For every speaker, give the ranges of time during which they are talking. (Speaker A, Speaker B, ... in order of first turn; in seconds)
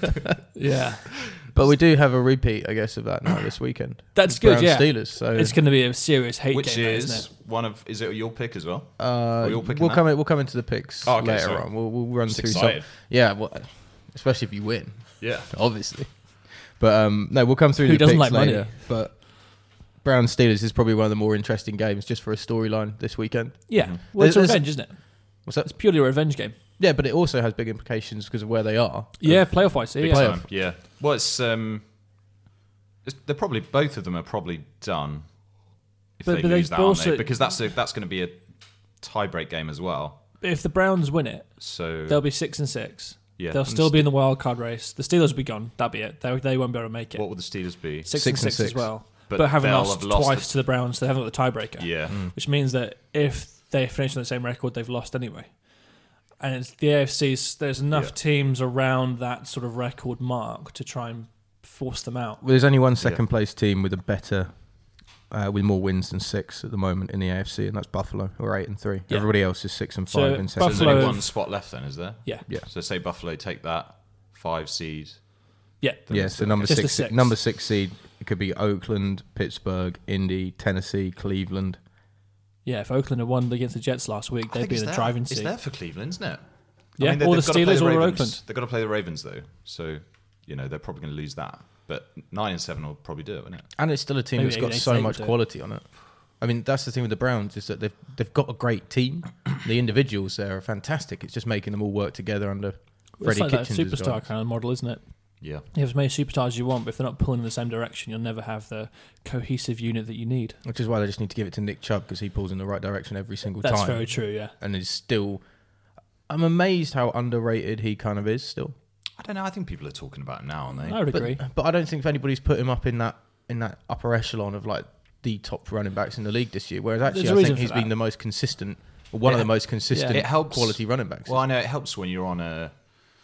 Speaker A: 0.5-1.2, 4.1-7.3, 17.8-18.8, 23.7-26.5, 29.2-30.4, 36.2-37.3, 40.4-55.7, 56.4-62.4, 69.1-71.6, 75.8-77.4, 82.7-85.5, 87.0-88.4, 94.3-95.3, 103.2-110.6, 113.6-114.5, 120.8-121.4, 127.1-127.9, 129.3-130.2
Speaker B: 1.5-5.6, 9.0-25.8, 26.8-30.4, 43.7-44.0, 48.1-48.9, 52.1-52.3, 62.4-71.2, 76.1-81.8, 93.8-104.3, 110.7-115.4, 116.3-118.7, 121.1-131.4
Speaker C: 6.5-10.2, 11.0-12.9, 15.2-15.5, 29.7-31.9, 33.0-35.4, 36.2-38.4, 39.0-40.2, 41.6-42.3, 43.4-43.9, 47.1-48.1, 49.3-50.5, 51.8-52.2, 70.6-75.3, 76.1-76.8, 84.5-93.7, 119.2-121.0, 130.1-132.8